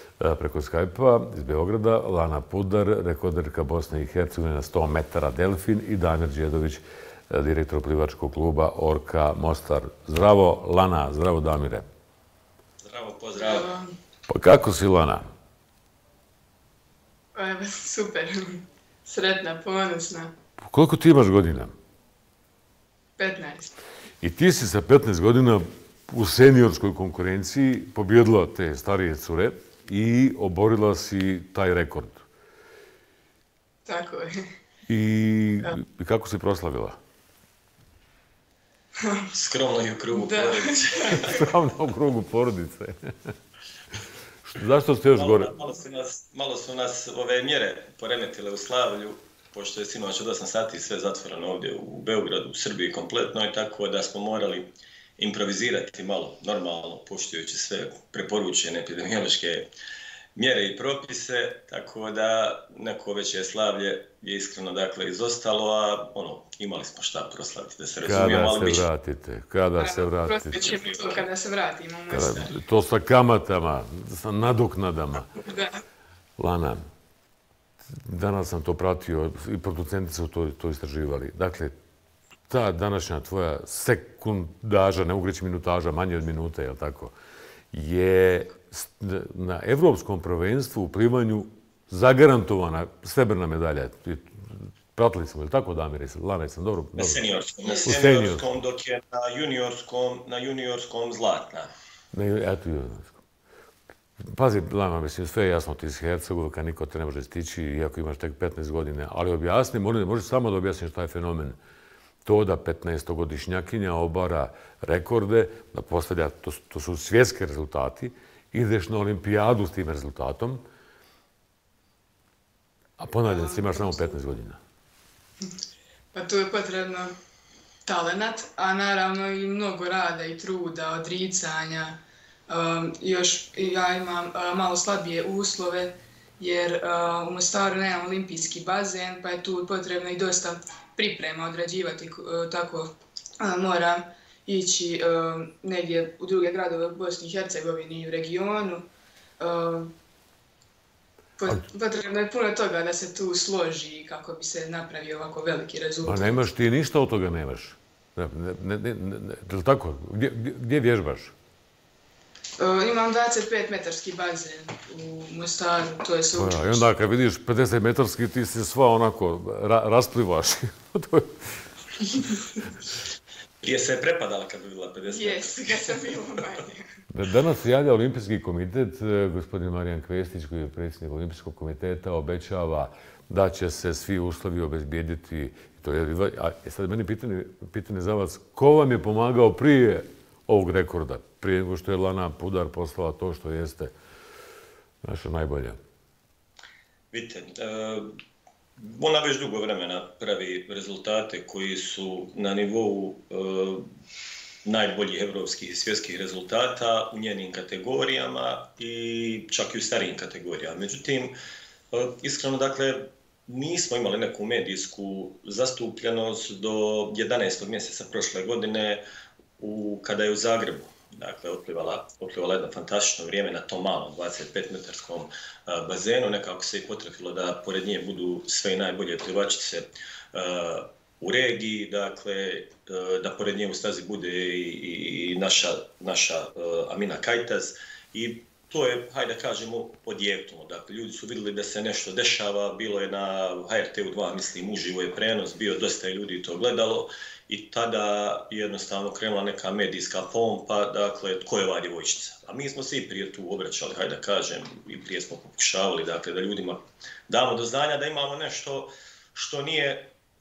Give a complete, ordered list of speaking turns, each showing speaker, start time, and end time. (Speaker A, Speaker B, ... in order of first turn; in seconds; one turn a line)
Speaker A: 0.2-11.8
Speaker B: 12.8-13.7
Speaker C: 13.4-13.9
Speaker A: 14.3-15.3
Speaker C: 17.3-20.3
Speaker A: 20.6-21.7
Speaker C: 23.2-23.7
Speaker A: 24.2-32.2
Speaker C: 33.9-34.4
Speaker A: 34.9-37.0
Speaker B: 39.3-41.4
Speaker C: 40.1-41.4
Speaker A: 41.1-42.9
Speaker A: 44.5-45.5
Speaker B: 45.1-59.7
Speaker B: 60.4-68.9
Speaker A: 68.0-70.7
Speaker C: 69.8-72.5
Speaker B: 70.6-70.9
Speaker A: 72.1-75.3
Speaker C: 75.3-75.7
Speaker A: 76.4-76.8
Speaker A: 78.0-81.7
Speaker A: 82.5-87.1
Speaker A: 87.7-97.2
Speaker B: 97.0-101.7
Speaker A: 97.8-98.4
Speaker A: 102.1-103.2
Speaker A: 104.2-111.6
Speaker A: 112.2-120.6
Speaker A: 123.0-124.6
Speaker C: 123.2-124.0
Speaker C: 126.1-127.1
Speaker C: 127.8-148.9
Speaker C: 149.4-149.9
Speaker C: 151.4-156.4
Speaker A: 156.0-161.3
Speaker C: 162.6-166.9
Speaker A: 166.3-171.3
Speaker B: 173.6-176.2
Speaker C: 175.1-176.9
Speaker A: 177.1-193.9
Speaker A: 195.0-195.8
Speaker B: 197.1-198.1
Speaker B: 198.8-203.8
Speaker B: 204.6-211.3
Speaker B: 211.9-219.0
Speaker B: 219.6-260.1